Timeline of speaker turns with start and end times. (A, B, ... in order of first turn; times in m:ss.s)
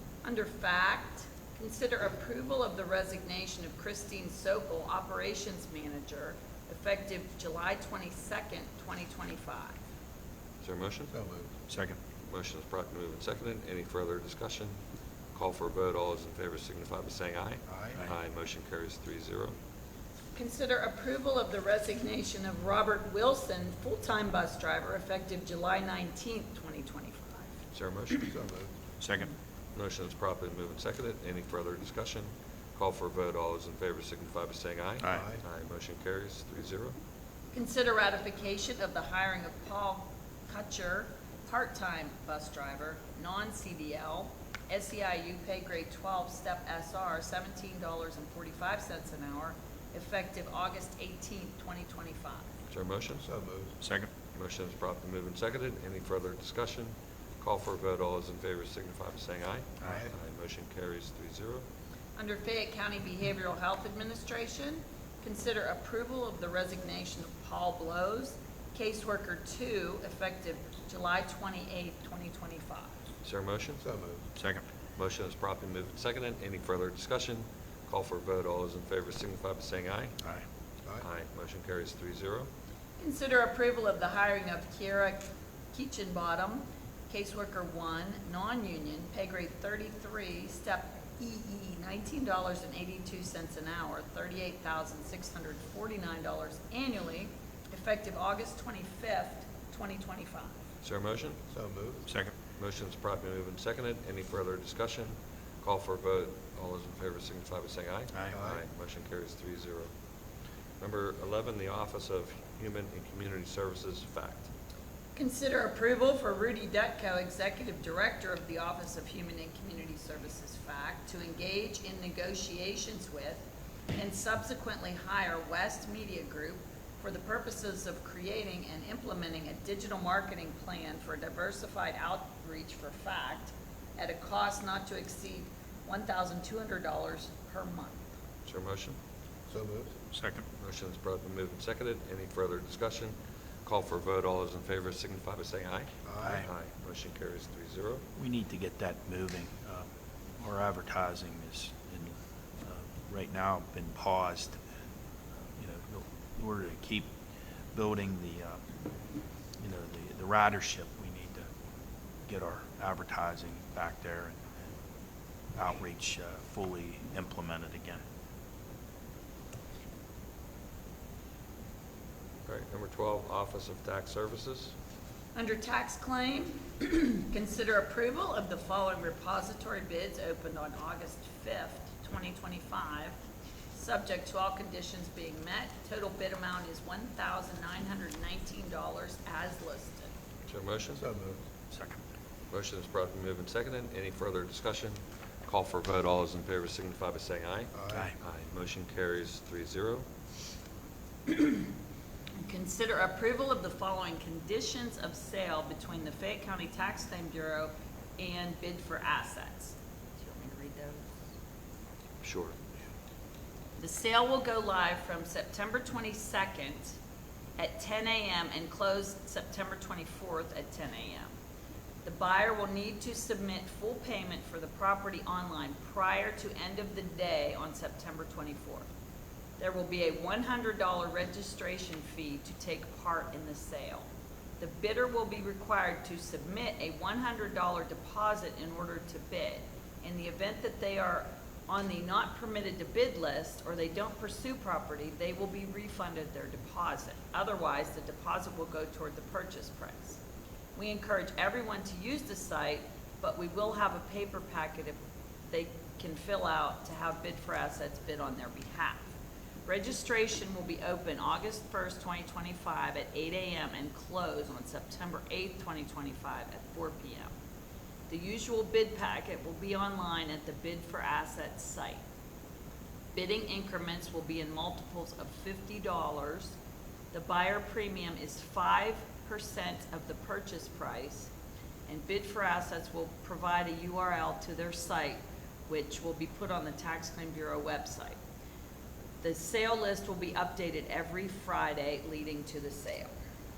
0:00.2-0:09.8 A
0:10.6-0:11.1 B
0:11.1-0:11.5 C
0:11.7-0:12.0 D
0:12.2-0:14.8 B
0:15.3-0:19.6 B
0:17.7-0:18.0 C
0:20.4-0:27.5 A
0:27.7-0:28.3 B
0:28.3-0:28.7 C
0:29.0-0:29.3 D
0:29.8-0:37.0 B
0:35.0-0:35.3 D
0:35.1-0:35.4 C
0:37.5-0:52.5 A
0:52.7-0:53.2 B
0:53.2-0:53.8 C
0:53.8-0:54.1 D
0:54.3-1:01.6 B
1:02.2-1:12.9 A
1:13.2-1:13.8 B
1:13.8-1:14.2 C
1:14.4-1:14.6 D
1:15.0-1:20.2 B
1:21.0-1:22.5 B
1:23.0-1:40.6 A
1:40.8-1:41.4 B
1:41.5-1:42.0 C
1:42.1-1:42.3 D
1:42.6-1:49.9 B
1:48.3-1:48.6 C
1:50.8-1:54.5 B
1:55.2-2:03.4 A
2:04.0-2:18.1 A
2:18.5-2:19.0 B
2:19.5-2:19.9 C
2:20.1-2:20.4 D
2:20.6-2:28.0 B
2:26.0-2:26.4 C
2:26.2-2:26.5 D
2:28.2-2:29.9 D
2:30.4-2:34.6 D
2:35.6-2:37.1 D
2:37.7-2:38.6 D
2:39.6-2:41.5 D
2:42.3-2:44.6 D
2:45.6-2:48.0 D
2:52.5-2:54.8 B
2:55.4-3:03.2 A
3:03.8-3:10.1 A
3:10.5-3:11.0 B
3:11.0-3:11.4 C
3:11.7-3:12.0 D
3:12.5-3:20.1 B
3:17.7-3:18.1 C
3:21.3-3:21.6 A
3:22.4-3:31.1 A
3:32.2-3:32.6 B
3:33.8-3:37.0 A
3:37.6-3:41.3 A
3:42.0-3:48.9 A
3:49.6-3:54.1 A
3:54.6-4:10.2 A
4:10.8-4:19.1 A
4:19.7-4:27.3 A
4:28.1-4:32.0 A
4:33.1-4:36.6 A
4:37.1-4:41.3 A
4:41.9-4:48.2 A
4:49.2-4:53.1 A